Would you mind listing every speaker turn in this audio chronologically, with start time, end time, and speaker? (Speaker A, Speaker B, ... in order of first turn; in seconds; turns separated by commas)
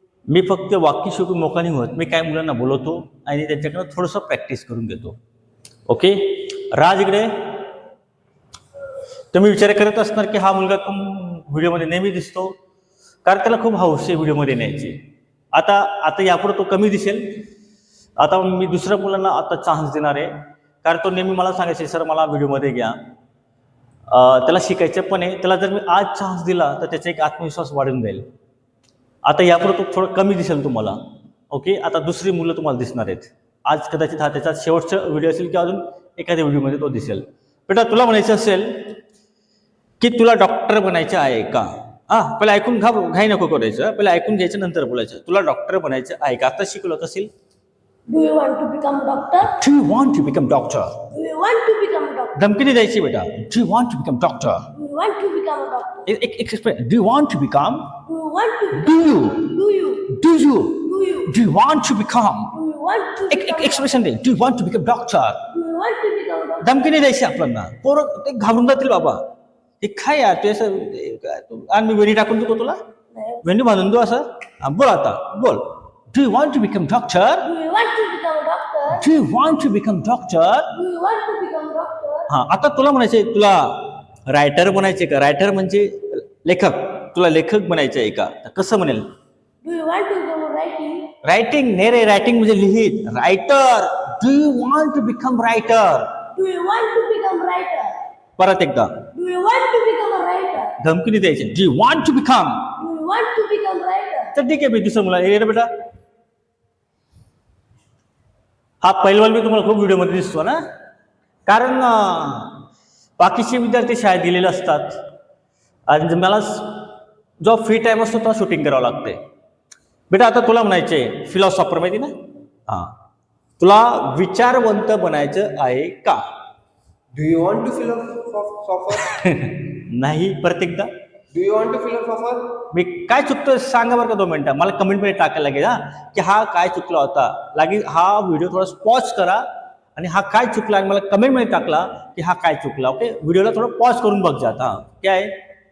Speaker A: 0.3-5.2, Speaker A: 5.9-7.3, Speaker A: 9.3-12.6, Speaker A: 13.2-15.0, Speaker A: 15.5-17.4, Speaker A: 18.2-23.0, Speaker A: 24.1-28.3, Speaker A: 29.2-31.0, Speaker A: 31.5-39.0, Speaker A: 40.0-47.3, Speaker B: 48.1-49.5, Speaker A: 49.4-51.0, Speaker B: 51.1-52.4, Speaker A: 52.3-54.7, Speaker B: 54.8-56.1, Speaker A: 56.1-58.0, Speaker B: 58.0-60.1, Speaker A: 58.7-62.6, Speaker B: 60.9-61.3, Speaker B: 62.5-63.9, Speaker A: 63.3-65.5, Speaker B: 65.5-66.7, Speaker A: 66.6-69.2, Speaker A: 69.8-72.8, Speaker B: 73.2-73.4, Speaker A: 73.4-77.5, Speaker B: 77.4-79.0, Speaker A: 78.9-80.7, Speaker B: 80.7-82.3, Speaker A: 82.3-89.1, Speaker B: 89.6-91.1, Speaker A: 91.2-96.1, Speaker B: 96.4-98.0, Speaker A: 98.4-99.1, Speaker B: 99.1-100.8, Speaker A: 100.8-102.7, Speaker B: 102.8-104.3, Speaker A: 104.3-105.7, Speaker A: 108.8-110.6, Speaker A: 111.5-112.6, Speaker A: 113.2-115.0, Speaker A: 115.9-116.9, Speaker A: 117.4-119.2, Speaker A: 120.1-122.1, Speaker A: 122.7-123.0, Speaker A: 123.6-126.3, Speaker C: 127.1-129.1, Speaker A: 129.0-130.9, Speaker C: 131.3-132.6, Speaker A: 132.7-139.4, Speaker A: 140.0-145.3